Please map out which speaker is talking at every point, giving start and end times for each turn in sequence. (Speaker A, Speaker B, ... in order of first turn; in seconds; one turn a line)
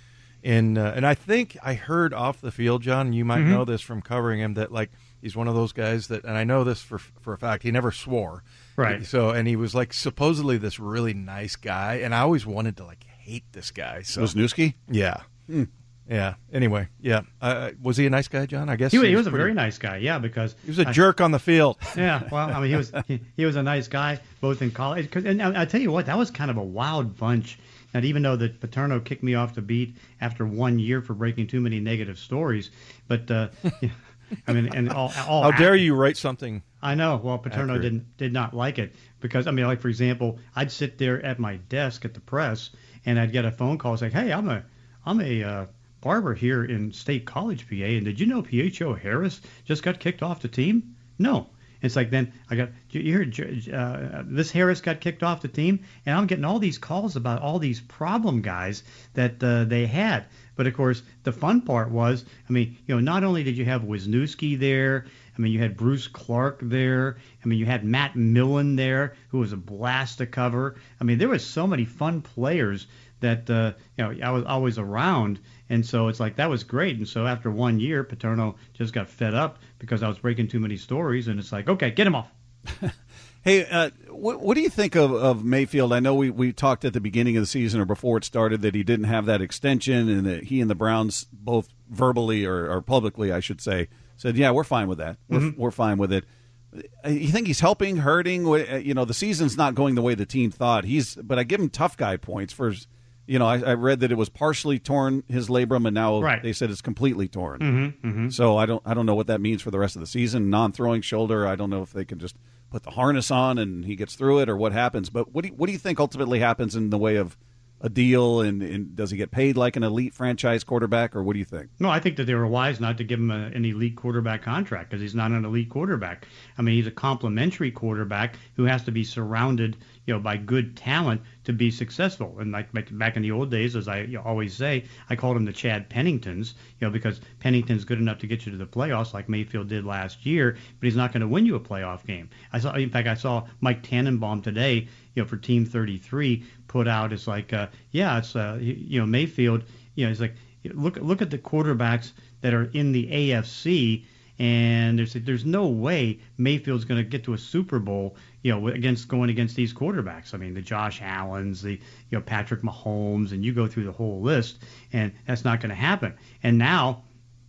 Speaker A: 0.4-14.3
Speaker B: 3.3-3.6
Speaker B: 8.8-9.0
Speaker C: 14.2-14.7
Speaker A: 14.9-15.2
Speaker A: 16.1-19.5
Speaker B: 18.9-21.0
Speaker A: 20.6-22.0
Speaker B: 21.9-35.9
Speaker A: 35.4-36.6
Speaker B: 36.8-82.3
Speaker A: 37.5-37.9
Speaker C: 83.4-107.7
Speaker B: 106.2-106.5
Speaker B: 107.6-108.3
Speaker C: 108.3-121.7
Speaker B: 121.8-167.0